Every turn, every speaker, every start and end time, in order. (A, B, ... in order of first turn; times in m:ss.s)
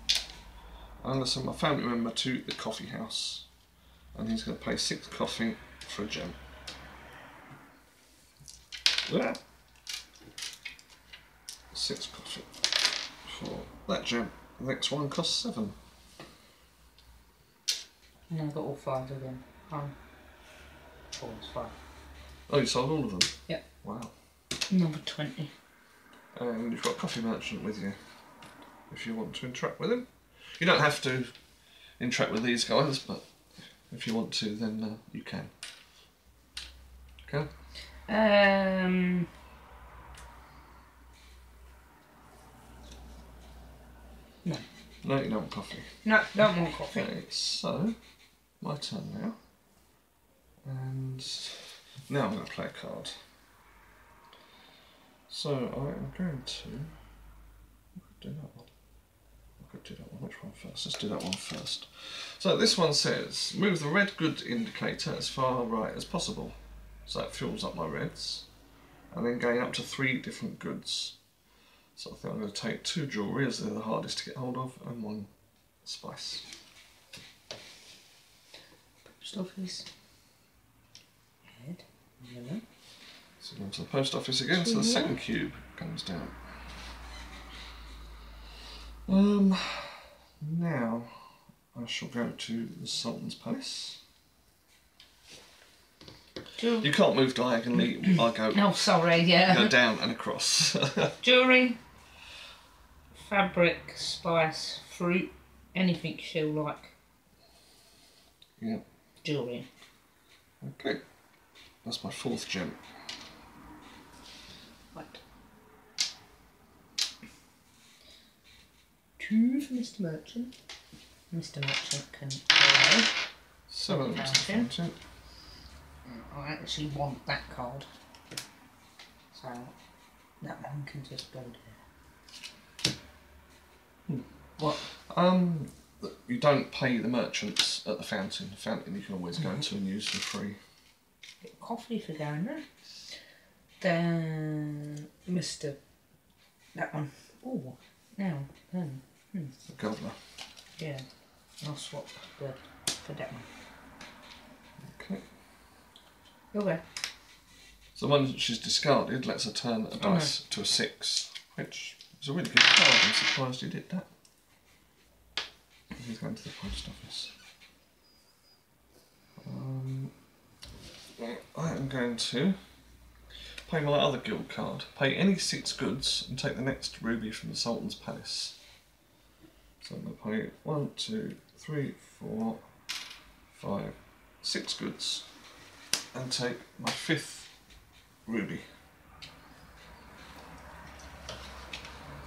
0:01.0-0:03.5 A
0:04.1-0:06.4 A
0:09.0-0:09.4 A
0:11.7-0:15.8 A
0:18.3-0:19.9 B
0:21.1-0:21.7 B
0:22.5-0:24.1 A
0:24.7-0:25.5 B
0:26.3-0:28.0 A
0:28.9-0:31.3 A
0:32.0-0:33.3 A
0:33.9-0:35.5 A
0:37.2-0:37.5 A
0:38.1-0:39.3 B
0:45.0-0:46.0 A
0:46.0-0:47.1 B
0:46.9-0:48.0 A
0:48.6-0:49.4 A
0:50.6-0:53.2 A
0:55.3-0:56.9 A
0:57.9-0:58.7 A
0:59.6-1:08.5 A
1:09.1-1:11.2 A
1:12.0-1:15.3 A
1:15.8-1:16.5 A
1:19.0-1:19.9 B
1:21.5-1:22.6 B
1:23.4-1:26.4 A
1:24.5-1:25.2 B
1:29.0-1:34.0 A
1:36.6-1:36.9 B
1:36.8-1:38.8 A
1:38.0-1:39.7 B
1:39.4-1:41.1 A
1:41.2-1:41.8 B
1:43.1-1:46.9 B
1:49.2-1:49.7 B
1:50.6-1:51.0 A
1:51.8-1:52.8 A
1:54.9-1:55.2 B
1:59.2-2:00.5 B
2:01.3-2:03.1 B
2:03.7-2:05.0 A
2:03.9-2:04.7 B
2:06.0-2:07.9 B
2:09.3-2:09.7 B
2:10.4-2:11.8 B
2:14.1-2:20.6 A
2:21.4-2:22.6 B
2:23.8-2:25.8 B
2:26.7-2:29.5 B
2:29.7-2:30.2 A
2:30.8-2:31.0 B
2:31.6-2:33.5 B
2:34.8-2:35.2 A
2:36.5-2:36.8 B
2:37.9-2:44.1 A
2:40.0-2:40.3 B
2:45.9-2:47.3 A
2:49.4-2:50.1 A
2:51.2-2:52.6 A
2:53.6-2:58.6 A
2:59.8-3:02.6 A
3:03.5-3:05.2 A
3:06.1-3:07.5 A
3:08.2-3:08.6 A